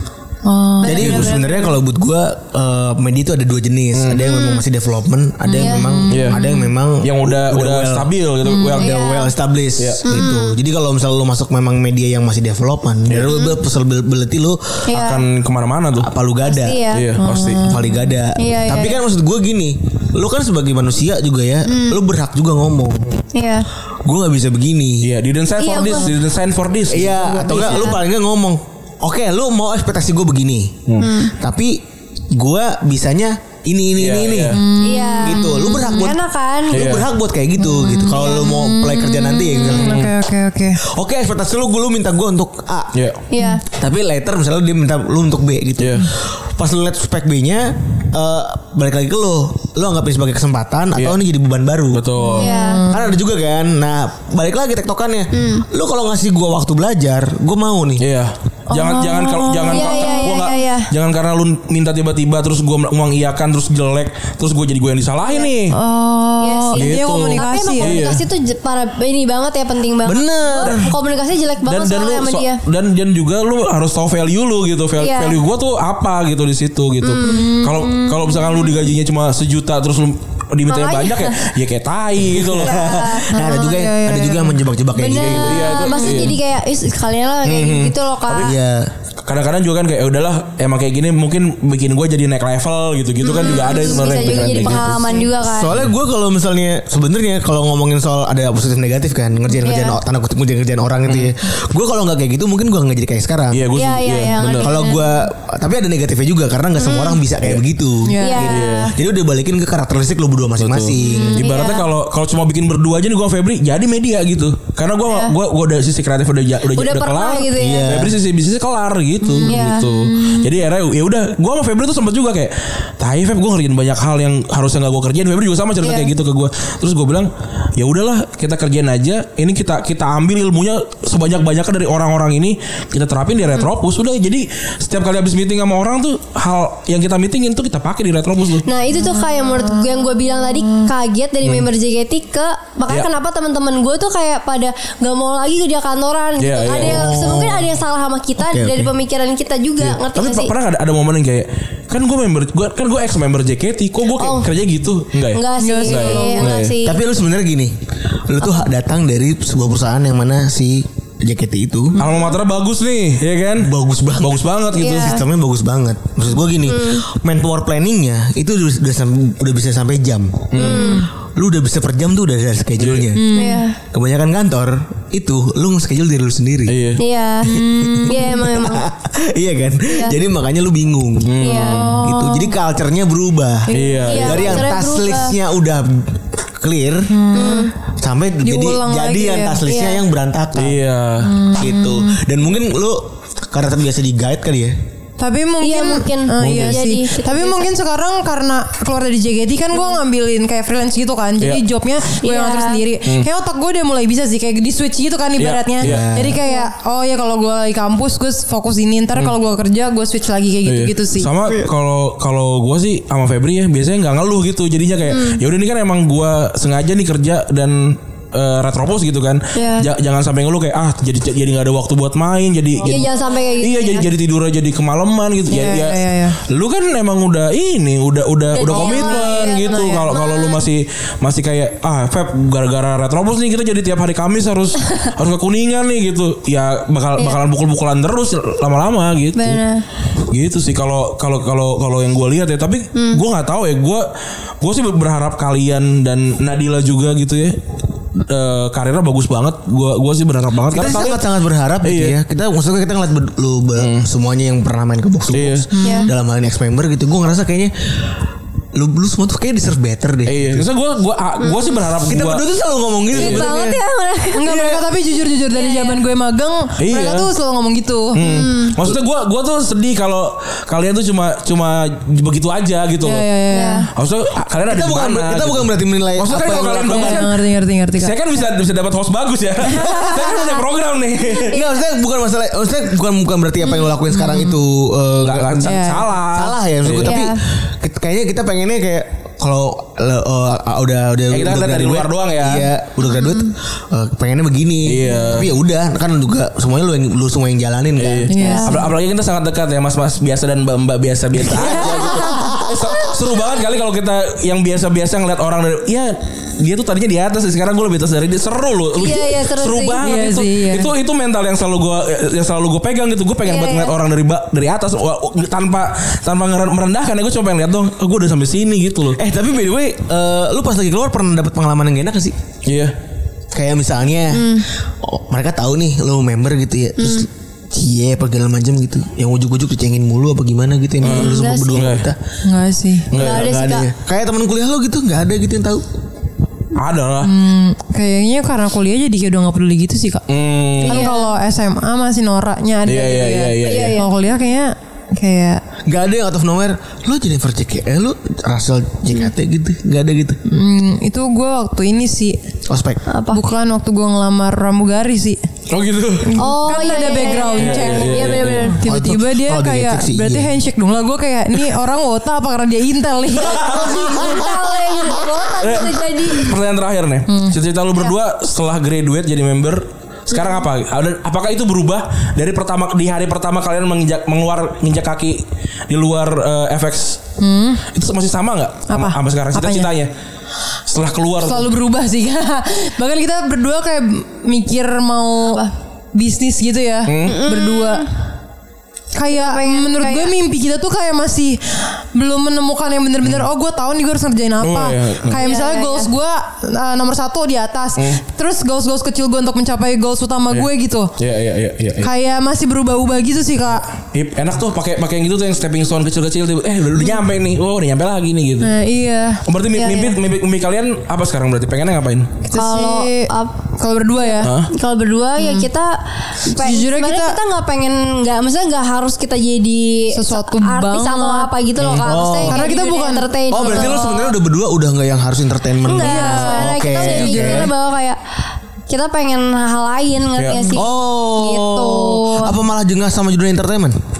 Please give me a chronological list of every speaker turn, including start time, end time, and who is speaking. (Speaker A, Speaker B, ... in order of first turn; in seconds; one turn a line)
Speaker A: 0.4-1.3
Speaker B: 0.8-1.7
Speaker C: 0.8-8.1
Speaker D: 3.9-4.3
Speaker B: 4.2-4.6
Speaker A: 5.5-6.7
Speaker B: 5.6-5.8
Speaker D: 6.1-6.4
Speaker D: 7.0-9.0
Speaker A: 8.4-8.8
Speaker C: 8.8-15.1
Speaker B: 8.8-9.3
Speaker D: 9.8-10.0
Speaker B: 10.0-10.5
Speaker B: 13.2-13.6
Speaker B: 14.9-15.2
Speaker D: 14.9-16.1
Speaker C: 16.0-23.2
Speaker B: 16.4-17.1
Speaker D: 16.9-17.7
Speaker A: 17.2-18.1
Speaker B: 18.4-19.0
Speaker B: 21.6-22.0
Speaker B: 23.3-23.6
Speaker C: 24.0-25.1
Speaker D: 25.0-27.8
Speaker B: 25.6-26.1
Speaker C: 26.9-31.8
Speaker B: 27.4-28.0
Speaker D: 30.9-31.1
Speaker B: 31.0-31.3
Speaker C: 32.3-34.6
Speaker D: 34.0-34.6
Speaker A: 34.5-36.1
Speaker B: 34.8-36.9
Speaker C: 35.2-40.0
Speaker D: 36.7-37.1
Speaker A: 37.6-40.8
Speaker D: 39.7-40.1
Speaker C: 40.8-42.9
Speaker D: 42.9-43.2
Speaker B: 43.3-43.6
Speaker C: 43.7-52.0
Speaker D: 45.8-46.1
Speaker D: 51.9-52.5
Speaker A: 52.2-53.1
Speaker B: 52.4-52.8
Speaker C: 52.9-58.0
Speaker B: 55.3-55.6
Speaker D: 58.0-65.8
Speaker A: 58.7-60.5
Speaker B: 59.7-60.9
Speaker A: 65.7-68.0
Speaker B: 66.4-72.6
Speaker D: 66.8-68.2
Speaker C: 70.0-70.9
Speaker D: 70.6-70.9
Speaker D: 71.6-83.0
Speaker B: 75.0-75.4
Speaker B: 77.0-77.5
Speaker A: 77.2-78.8
Speaker B: 80.7-81.4
Speaker C: 82.4-85.8
Speaker B: 82.6-83.5
Speaker A: 83.3-84.6
Speaker B: 84.9-88.5
Speaker D: 85.1-86.4
Speaker A: 85.9-86.3
Speaker D: 87.4-88.5
Speaker C: 88.3-88.9
Speaker D: 89.2-95.9
Speaker B: 93.2-95.7
Speaker C: 94.1-103.7
Speaker B: 99.6-100.0
Speaker D: 101.1-101.3
Speaker D: 103.5-104.9
Speaker B: 103.7-105.1
Speaker C: 104.5-111.4
Speaker B: 106.8-107.2
Speaker A: 108.0-108.7
Speaker B: 108.2-108.9
Speaker D: 108.4-108.9
Speaker D: 110.6-138.7
Speaker B: 111.0-111.9
Speaker B: 115.1-115.3
Speaker B: 116.7-118.0
Speaker C: 117.5-118.2
Speaker A: 119.2-120.4
Speaker B: 119.4-119.9
Speaker B: 125.8-126.1
Speaker B: 138.6-150.5
Speaker A: 139.0-140.9
Speaker D: 146.4-147.1
Speaker C: 146.7-147.8
Speaker C: 148.4-148.9
Speaker D: 149.8-156.7
Speaker B: 154.2-154.5
Speaker B: 155.3-157.0
Speaker A: 155.6-156.5
Speaker C: 156.8-157.8
Speaker C: 158.3-162.0
Speaker D: 162.0-165.2
Speaker C: 163.6-173.3
Speaker B: 164.7-165.2
Speaker B: 166.6-167.0
Speaker D: 170.5-171.0
Speaker B: 170.6-171.1
Speaker A: 170.7-171.1
Speaker D: 172.8-173.1
Speaker A: 173.1-173.7
Speaker B: 173.3-173.8
Speaker C: 173.8-176.8
Speaker D: 176.7-177.0
Speaker B: 177.0-178.8
Speaker C: 177.4-187.1
Speaker A: 177.5-178.3
Speaker B: 179.9-180.2
Speaker D: 181.2-181.9
Speaker B: 181.4-182.4
Speaker A: 181.8-182.5
Speaker D: 183.7-184.7
Speaker B: 183.7-185.3
Speaker A: 187.1-187.7
Speaker B: 187.3-187.7
Speaker C: 187.9-190.8
Speaker A: 188.4-189.6
Speaker B: 189.6-190.0
Speaker D: 190.5-191.3
Speaker A: 191.2-192.2
Speaker C: 191.5-194.8
Speaker A: 195.2-211.3
Speaker B: 195.6-197.7
Speaker D: 196.4-196.8
Speaker B: 202.2-202.8
Speaker D: 205.4-206.1
Speaker C: 205.8-206.4
Speaker B: 206.4-206.7
Speaker D: 210.6-239.6
Speaker B: 215.1-215.4
Speaker B: 219.5-219.9
Speaker B: 222.8-224.1
Speaker A: 225.5-226.4
Speaker B: 228.5-230.7
Speaker A: 228.7-230.1
Speaker B: 239.3-239.8
Speaker D: 240.2-244.1
Speaker B: 242.9-243.2
Speaker D: 244.6-247.6
Speaker D: 248.2-251.2
Speaker C: 250.7-258.2
Speaker D: 251.8-252.2
Speaker D: 253.7-254.1
Speaker D: 255.3-255.7
Speaker A: 255.7-256.1
Speaker B: 255.8-256.1
Speaker C: 258.7-260.7
Speaker D: 260.2-262.4
Speaker B: 261.4-261.8
Speaker C: 262.0-263.8
Speaker B: 263.1-264.4
Speaker D: 263.1-263.4
Speaker A: 264.3-268.2
Speaker C: 264.4-264.8
Speaker B: 265.5-266.0
Speaker D: 266.8-267.3
Speaker D: 268.1-273.2
Speaker B: 268.2-268.8
Speaker A: 273.0-273.8
Speaker B: 273.5-273.9
Speaker D: 273.9-277.3
Speaker C: 274.6-277.3
Speaker A: 276.6-278.1
Speaker D: 277.9-281.6
Speaker B: 280.0-280.6
Speaker B: 281.2-281.7
Speaker C: 281.5-298.3
Speaker A: 284.1-284.5
Speaker D: 285.2-287.1
Speaker A: 285.6-286.1
Speaker B: 287.0-287.4
Speaker D: 291.3-292.7
Speaker B: 293.0-293.5
Speaker D: 294.8-295.5
Speaker D: 298.0-319.2
Speaker A: 298.3-298.9
Speaker B: 298.4-298.8
Speaker C: 301.3-303.0
Speaker B: 308.9-310.0
Speaker A: 310.0-310.9
Speaker B: 313.4-313.9
Speaker C: 319.1-322.3
Speaker D: 322.6-322.9
Speaker C: 323.5-332.2
Speaker B: 324.3-324.6
Speaker B: 327.0-327.2
Speaker B: 331.0-331.9
Speaker D: 331.0-332.1
Speaker A: 332.4-333.1
Speaker D: 333.1-333.4
Speaker B: 333.1-333.9
Speaker C: 333.1-335.9
Speaker D: 336.7-337.3
Speaker A: 337.2-340.2
Speaker D: 340.3-341.1
Speaker B: 340.8-341.3
Speaker A: 340.9-345.6
Speaker D: 342.8-344.0
Speaker B: 343.6-344.1
Speaker C: 345.9-350.4
Speaker A: 350.5-352.4
Speaker C: 352.7-353.0
Speaker B: 353.1-353.4
Speaker A: 353.3-355.4
Speaker D: 355.7-356.4
Speaker A: 356.2-364.1
Speaker B: 356.4-358.8
Speaker D: 357.6-358.8
Speaker C: 358.9-360.6
Speaker D: 363.5-364.4
Speaker B: 363.5-366.6
Speaker C: 363.7-364.5
Speaker D: 365.6-377.2
Speaker A: 367.3-367.6
Speaker B: 370.4-370.6
Speaker A: 377.4-377.8
Speaker D: 377.9-380.1
Speaker A: 378.9-379.9
Speaker D: 380.9-381.7
Speaker A: 381.4-385.6
Speaker A: 386.1-388.1
Speaker D: 387.1-387.4
Speaker B: 387.2-388.1
Speaker A: 389.1-401.1
Speaker B: 389.3-390.3
Speaker D: 394.6-395.4
Speaker B: 395.4-396.1
Speaker D: 397.9-398.2
Speaker D: 400.5-402.1
Speaker A: 402.0-403.9
Speaker D: 404.1-408.7
Speaker A: 408.6-409.4
Speaker D: 409.4-412.3
Speaker B: 409.7-410.2
Speaker A: 412.4-414.5
Speaker B: 412.5-413.6
Speaker B: 414.2-424.4
Speaker D: 414.4-414.7
Speaker A: 415.4-415.7
Speaker A: 416.5-417.4
Speaker A: 420.1-421.5
Speaker D: 421.8-422.1
Speaker C: 421.9-422.6
Speaker A: 422.5-423.2
Speaker C: 423.5-427.7
Speaker B: 425.8-428.2
Speaker A: 426.0-427.7
Speaker B: 428.9-432.6
Speaker D: 430.4-430.8
Speaker C: 430.7-433.9